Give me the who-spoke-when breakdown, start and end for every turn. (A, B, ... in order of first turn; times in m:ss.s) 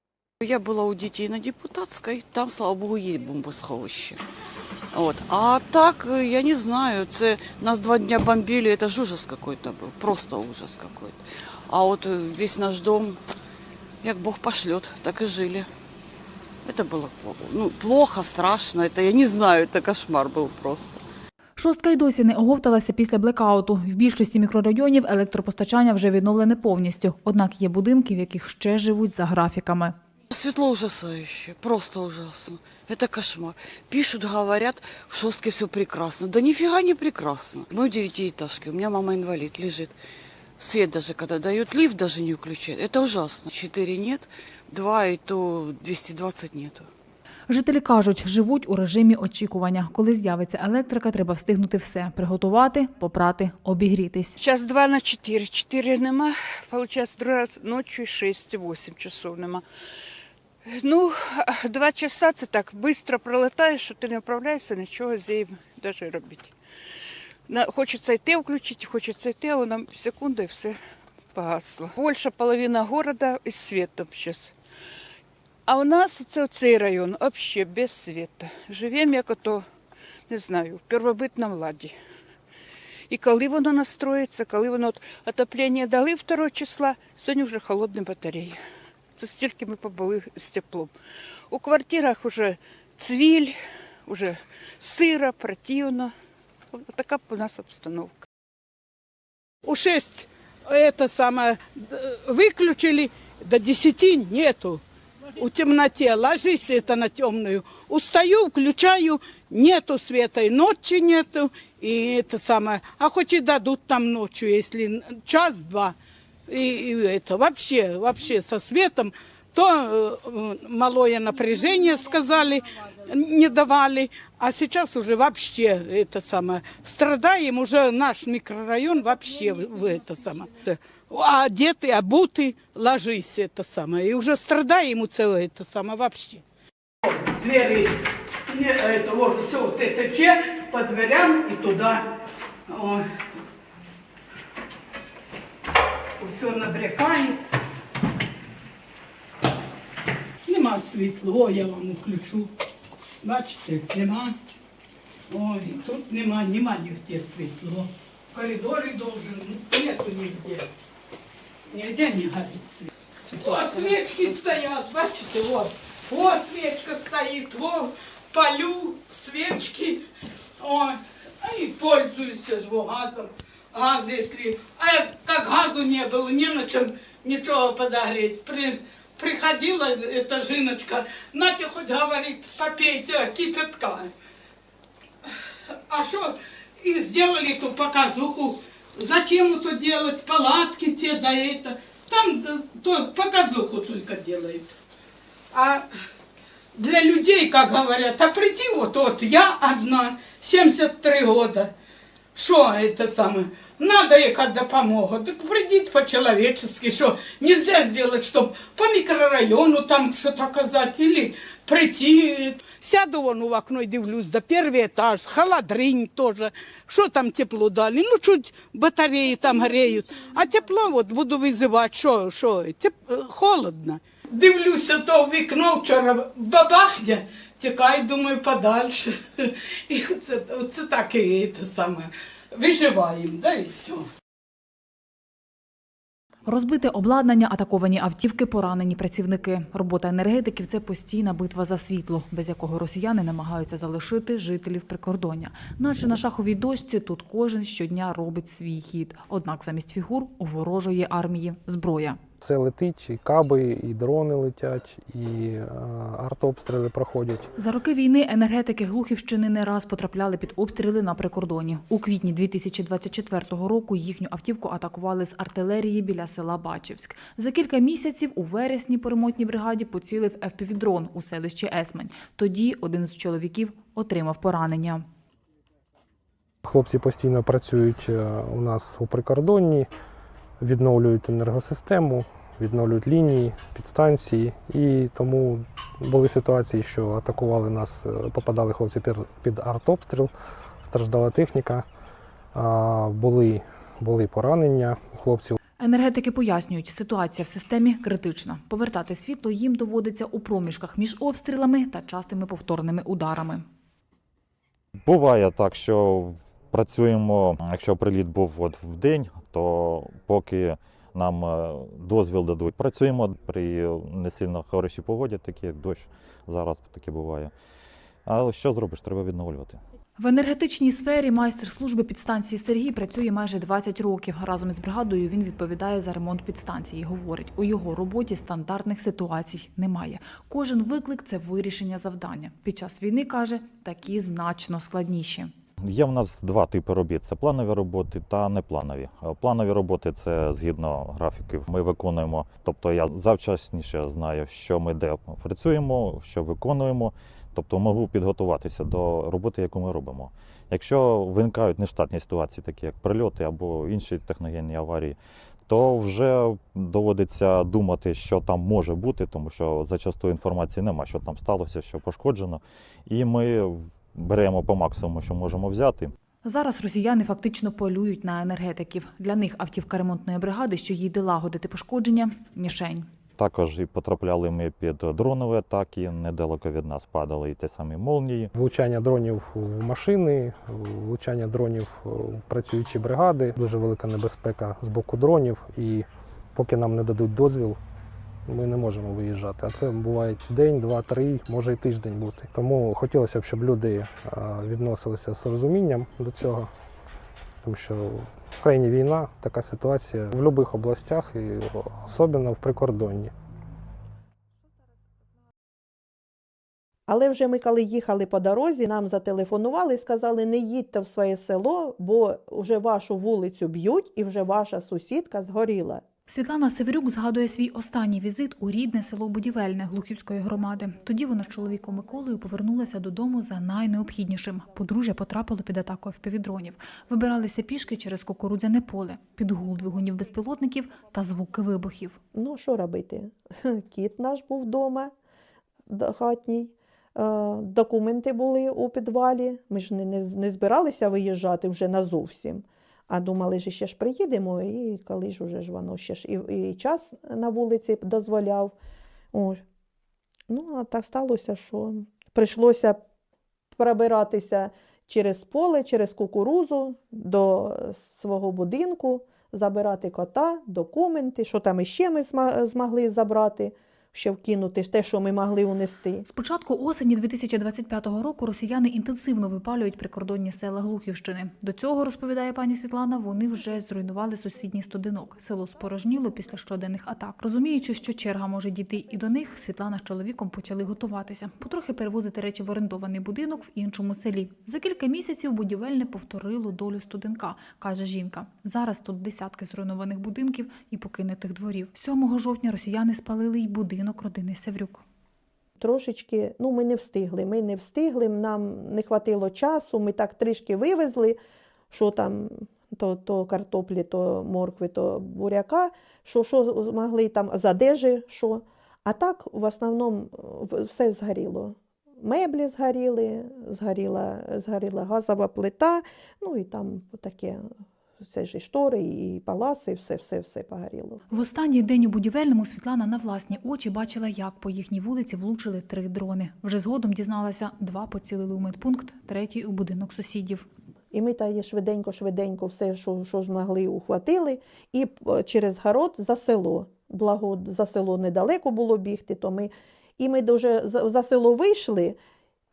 0:00.4-0:04.2 A
0:04.9-0:13.2 A
0:14.0-0:15.7 A
0:16.6-0:21.0 A
0:21.6-0:30.0 B
0:30.3-0:40.0 A
0:40.6-0:46.9 A
0:47.5-0:54.4 B
0:54.4-0:59.6 C
1:00.6-1:06.5 C
1:07.5-1:10.8 C
1:11.3-1:14.5 C
1:15.7-1:19.7 C
1:20.3-1:22.0 C
1:23.1-1:28.6 C
1:29.2-1:30.9 C
1:31.5-1:36.1 C
1:36.7-1:38.2 C
1:39.6-1:44.8 D
1:45.4-1:56.0 D
1:56.5-2:16.4 D
2:17.1-2:17.9 D
2:18.5-2:22.1 D
2:22.7-2:23.0 D
2:26.2-2:27.4 D
2:30.5-2:32.5 D
2:33.2-2:34.4 D
2:35.3-2:40.7 D
2:41.7-2:50.0 D
2:43.3-2:44.6 A
2:50.6-3:04.1 D
3:05.9-3:14.7 D
3:15.5-3:15.9 D
3:16.8-3:21.7 D
3:22.4-3:54.1 D
3:56.5-4:12.2 B
4:12.4-4:17.5 E
4:17.6-4:35.1 B
4:36.6-4:39.9 E
4:40.6-4:51.9 E
4:52.5-4:55.6 E
4:55.8-5:03.6 B
5:05.0-5:17.5 F
5:18.2-5:19.8 F
5:20.2-5:35.5 B
5:35.8-5:55.2 F
5:55.7-6:06.1 F
6:06.4-6:13.1 B
6:13.4-6:18.5 F
6:18.5-6:27.8 E
6:28.5-6:36.7 E
6:37.6-6:43.3 E
6:47.1-6:56.0 G
6:56.3-7:12.2 B
7:12.4-7:15.1 G
7:15.9-7:28.8 G
7:29.3-7:29.6 G
7:30.5-7:33.0 G
7:33.8-7:46.2 G
7:46.2-8:15.0 B
8:15.8-8:21.4 G
8:21.9-8:37.6 G
8:38.2-8:41.2 G
8:41.3-8:50.6 B
8:51.1-9:02.2 G